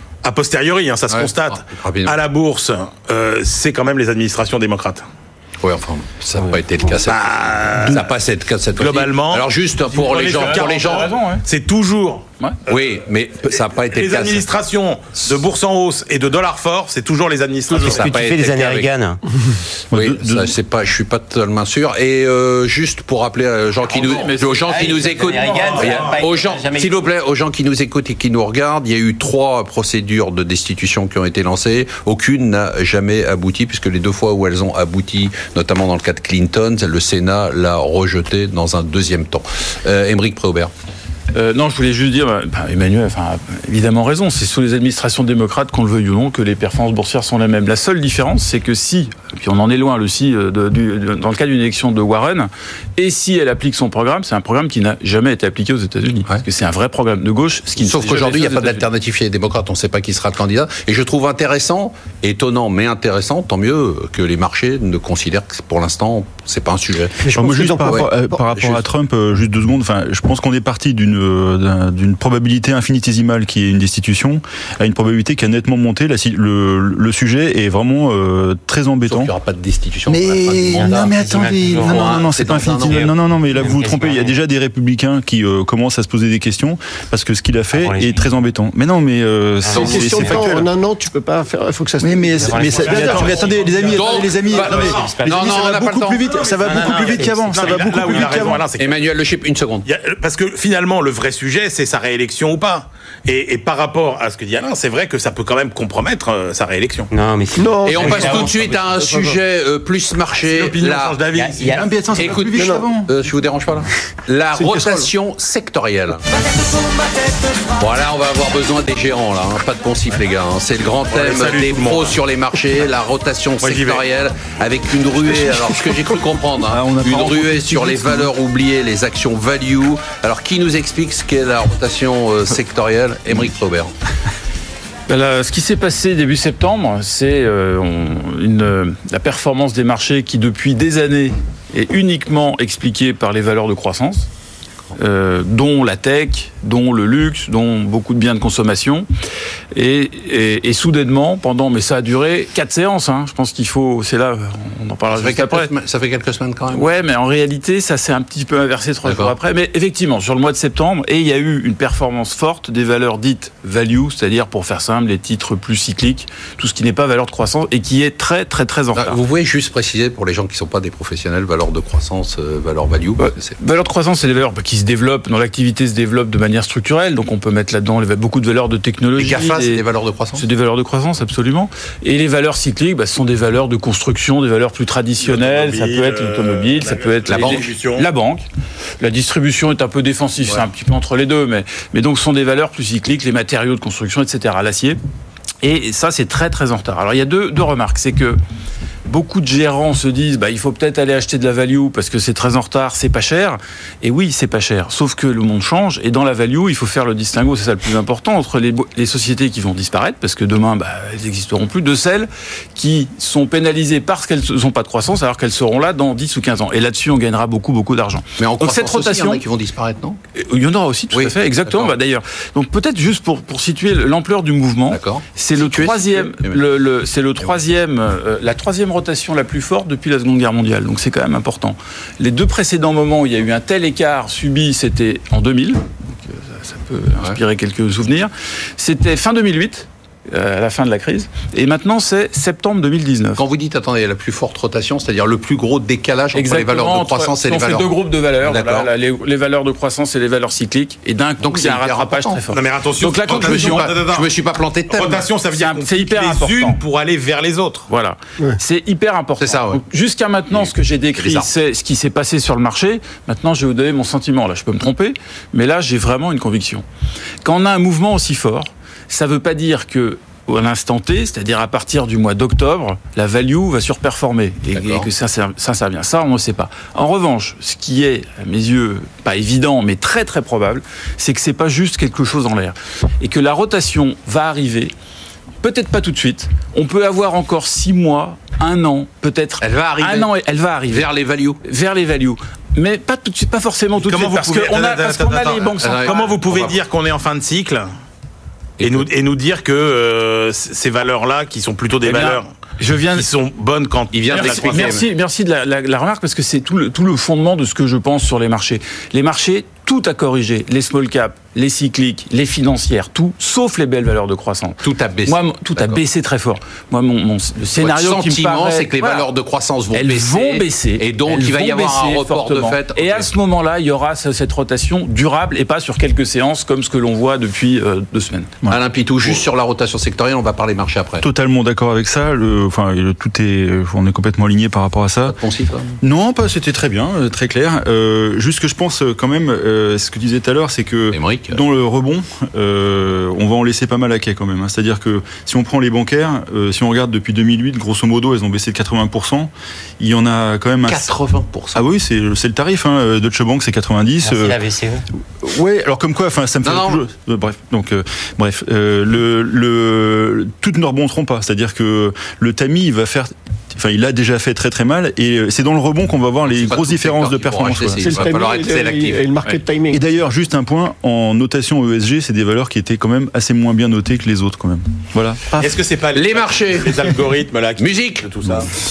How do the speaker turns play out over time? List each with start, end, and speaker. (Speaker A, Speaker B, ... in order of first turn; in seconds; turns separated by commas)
Speaker A: 0.2-5.0, Speaker B: 1.1-2.1, Speaker B: 5.6-11.1, Speaker A: 7.0-8.1, Speaker A: 8.8-12.7, Speaker C: 10.6-11.4, Speaker B: 12.7-14.4, Speaker A: 13.9-18.1, Speaker D: 17.7-19.2, Speaker B: 17.7-18.9, Speaker E: 19.9-20.5, Speaker B: 19.9-40.7, Speaker C: 23.9-25.9, Speaker D: 23.9-27.0, Speaker A: 25.7-26.2, Speaker C: 41.3-58.9, Speaker B: 57.8-67.2, Speaker F: 67.2-68.3, Speaker E: 67.3-79.3, Speaker B: 67.8-68.8, Speaker B: 79.1-83.1, Speaker E: 80.0-90.7, Speaker D: 80.7-84.3, Speaker D: 87.7-88.2, Speaker D: 89.6-90.0, Speaker F: 89.7-93.4, Speaker B: 89.8-90.4, Speaker E: 92.0-98.6, Speaker D: 92.4-93.6, Speaker A: 92.6-95.2, Speaker B: 93.9-96.2, Speaker D: 94.5-95.7, Speaker A: 96.2-99.0, Speaker D: 96.3-98.6, Speaker B: 98.8-99.9, Speaker A: 99.8-107.1, Speaker D: 107.1-109.0, Speaker F: 107.6-109.3, Speaker B: 107.8-111.2, Speaker A: 110.3-111.8, Speaker D: 111.3-112.4, Speaker E: 111.7-113.1, Speaker B: 112.1-116.2, Speaker F: 112.5-112.9, Speaker E: 114.5-115.1, Speaker B: 117.8-133.9, Speaker A: 121.1-122.2, Speaker A: 123.6-124.0, Speaker E: 126.7-128.3, Speaker C: 135.1-144.3, Speaker C: 144.9-149.1, Speaker C: 149.7-155.7, Speaker B: 155.1-156.9, Speaker C: 156.7-169.2, Speaker B: 159.0-159.3, Speaker B: 168.9-173.5, Speaker C: 173.2-179.8, Speaker B: 179.2-180.4, Speaker C: 180.3-188.4, Speaker A: 185.2-188.1, Speaker B: 187.3-187.7, Speaker C: 189.0-195.0, Speaker C: 195.6-198.4, Speaker C: 199.1-219.4, Speaker B: 218.4-220.2, Speaker C: 220.3-243.4, Speaker B: 221.1-221.9, Speaker B: 224.9-226.6, Speaker B: 243.4-248.9, Speaker C: 246.3-253.9, Speaker B: 251.4-252.4, Speaker A: 252.5-254.3, Speaker B: 253.2-255.3, Speaker A: 254.9-257.9, Speaker C: 255.6-256.8, Speaker C: 257.9-266.8, Speaker B: 259.4-259.8, Speaker B: 260.5-261.5, Speaker C: 267.4-284.9, Speaker B: 274.7-275.1, Speaker C: 285.6-291.1, Speaker B: 289.6-290.3, Speaker B: 290.9-291.6, Speaker C: 291.6-296.2, Speaker A: 294.0-297.9, Speaker B: 295.8-296.8, Speaker B: 298.8-299.1, Speaker A: 298.8-302.5, Speaker C: 302.0-303.3, Speaker A: 303.1-304.9, Speaker B: 304.1-305.1, Speaker C: 304.3-319.3, Speaker B: 314.8-316.0, Speaker B: 317.8-323.3, Speaker C: 319.9-328.5, Speaker B: 328.7-331.2, Speaker E: 331.2-335.4, Speaker B: 335.2-336.0, Speaker E: 336.0-351.1, Speaker B: 341.1-341.6, Speaker B: 350.8-351.8, Speaker E: 351.7-354.5, Speaker D: 354.2-355.0, Speaker E: 355.4-368.3, Speaker B: 356.6-357.0, Speaker B: 366.5-369.6, Speaker F: 368.0-370.0, Speaker E: 369.9-375.7, Speaker A: 375.6-378.7, Speaker B: 376.1-377.1, Speaker B: 377.8-378.3